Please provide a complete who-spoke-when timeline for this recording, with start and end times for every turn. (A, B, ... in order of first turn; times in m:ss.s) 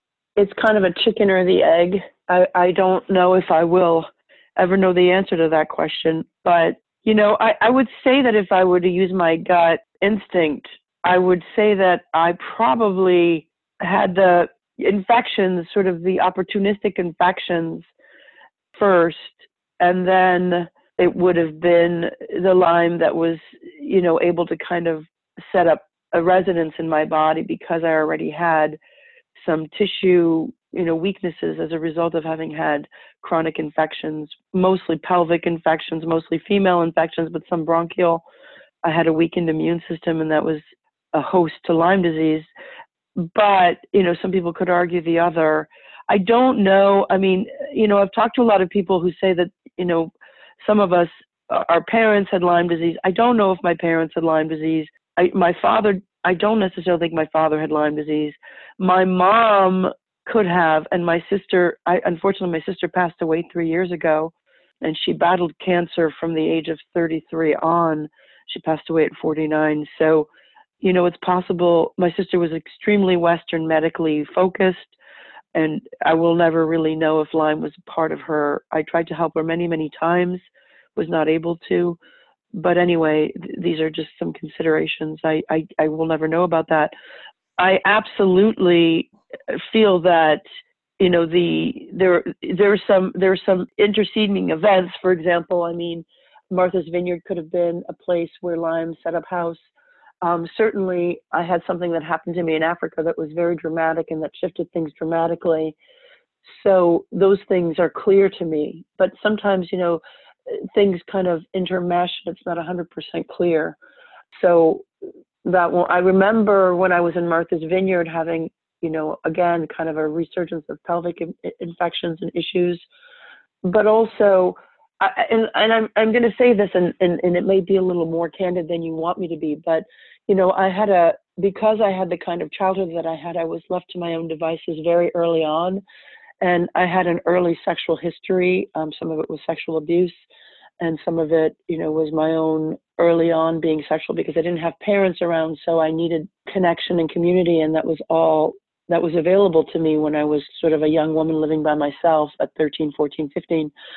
0:00.4-0:17.9 A
0:18.7-0:28.8 A
0:29.4-0:38.2 A
0:38.8-0:40.6 A
0:41.1-0:42.4 A
0:43.2-1:10.3 A
1:10.8-1:14.9 A
1:15.5-1:20.4 A
1:21.0-1:22.0 A
1:22.5-1:26.9 A
1:27.6-1:30.4 A
1:31.0-1:39.6 A
1:40.2-1:45.8 A
1:46.4-1:53.8 A
1:54.4-1:54.8 A
1:55.4-2:02.8 A
2:03.6-2:15.8 A
2:16.4-2:20.1 A
2:20.8-2:33.7 A